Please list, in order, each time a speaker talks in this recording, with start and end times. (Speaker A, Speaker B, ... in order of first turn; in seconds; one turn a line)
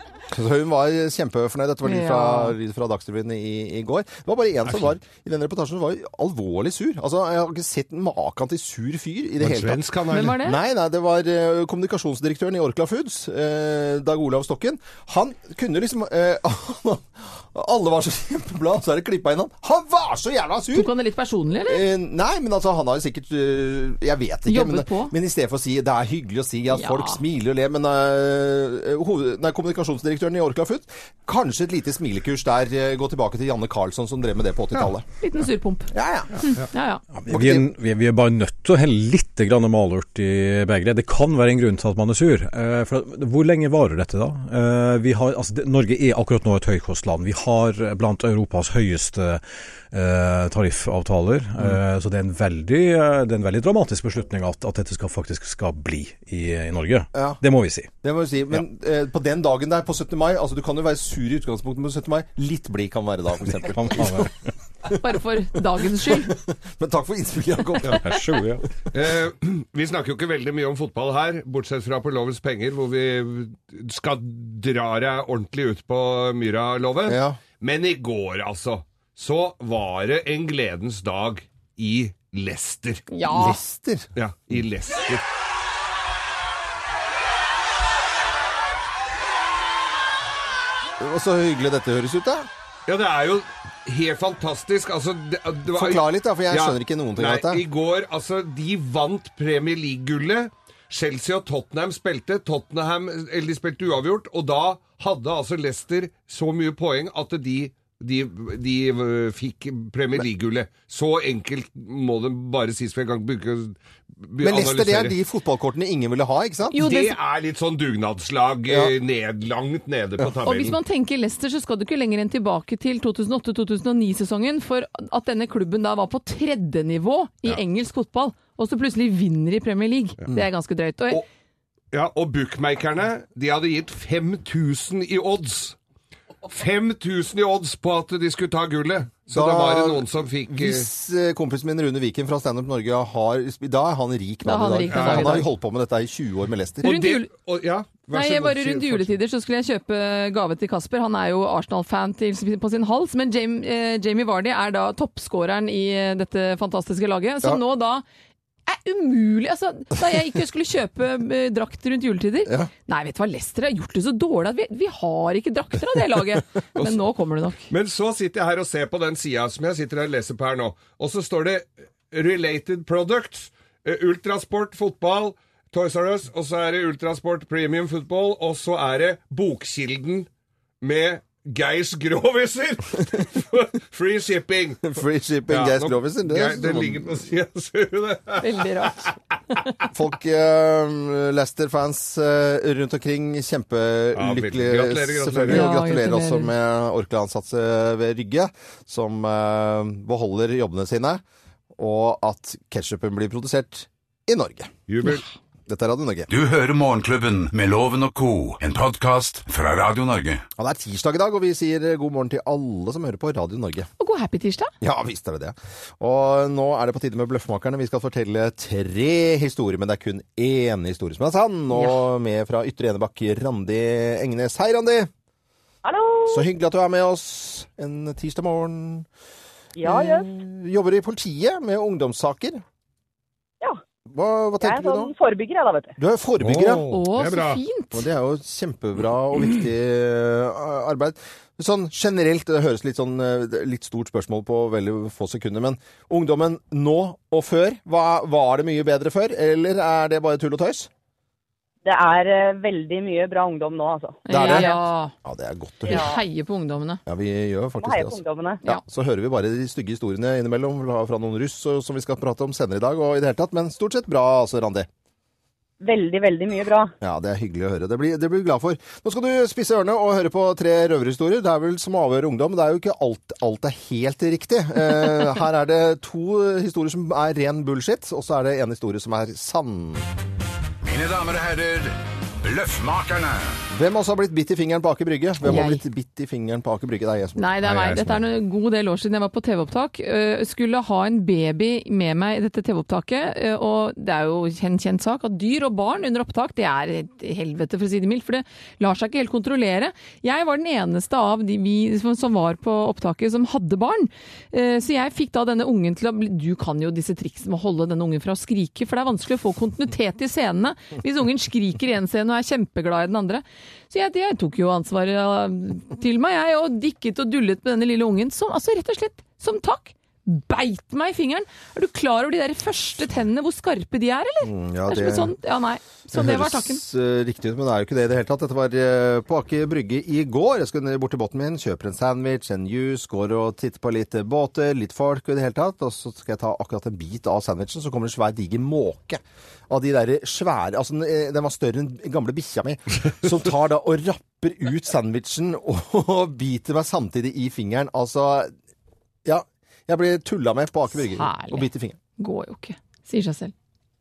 Speaker A: 0.3-20.9
Speaker B: 1.8-2.6
Speaker C: 9.4-10.4
Speaker B: 10.1-10.6
Speaker B: 20.7-21.8
Speaker A: 21.6-35.0
Speaker B: 24.5-25.1
Speaker B: 26.7-27.2
Speaker B: 35.2-37.0
Speaker A: 35.9-36.4
Speaker D: 37.1-57.9
Speaker A: 37.3-37.7
Speaker A: 57.1-57.4
Speaker A: 58.0-64.3
Speaker D: 63.6-64.3
Speaker B: 65.0-66.3
Speaker A: 66.0-68.2
Speaker D: 68.0-68.6
Speaker C: 68.9-83.1
Speaker A: 77.0-77.4
Speaker B: 83.1-83.6
Speaker A: 83.2-84.1
Speaker C: 84.2-85.2
Speaker A: 91.0-92.5
Speaker C: 92.8-115.2
Speaker A: 95.7-97.6
Speaker A: 114.4-116.9
Speaker B: 116.7-117.1
Speaker C: 116.8-120.8
Speaker B: 120.4-131.2
Speaker C: 131.9-135.8
Speaker C: 136.5-140.9
Speaker A: 139.3-147.0
Speaker B: 144.4-145.5
Speaker C: 144.9-145.4
Speaker B: 146.8-147.3
Speaker C: 146.8-149.1
Speaker B: 148.1-158.0
Speaker B: 158.7-167.7
Speaker C: 167.7-180.3
Speaker C: 180.8-188.7
Speaker A: 184.8-187.1
Speaker B: 188.4-189.8
Speaker A: 189.9-201.2
Speaker C: 194.1-195.7
Speaker B: 195.5-196.5
Speaker A: 201.8-204.7
Speaker C: 204.9-205.2
Speaker A: 205.7-206.3
Speaker E: 206.3-210.4
Speaker A: 210.6-213.9
Speaker B: 214.0-214.7
Speaker A: 214.8-225.1
Speaker B: 221.7-222.0
Speaker F: 225.8-226.4
Speaker A: 226.3-229.1
Speaker F: 229.8-230.2
Speaker A: 229.8-232.6
Speaker A: 234.1-235.1
Speaker F: 234.6-235.9
Speaker A: 236.0-236.8
Speaker C: 236.4-237.6
Speaker B: 236.9-238.0
Speaker A: 237.9-250.9
Speaker F: 251.8-254.2
Speaker B: 254.3-255.1
Speaker A: 254.3-256.2
Speaker B: 255.9-257.0
Speaker F: 255.9-256.2
Speaker A: 257.1-264.9
Speaker F: 257.8-258.6
Speaker F: 265.8-266.9
Speaker A: 267.0-280.1
Speaker E: 280.8-283.6
Speaker A: 283.7-287.5
Speaker B: 285.4-285.8
Speaker B: 287.4-326.8
Speaker C: 287.6-288.2
Speaker A: 324.4-325.3
Speaker A: 326.1-348.5
Speaker A: 349.2-352.0
Speaker B: 350.9-353.5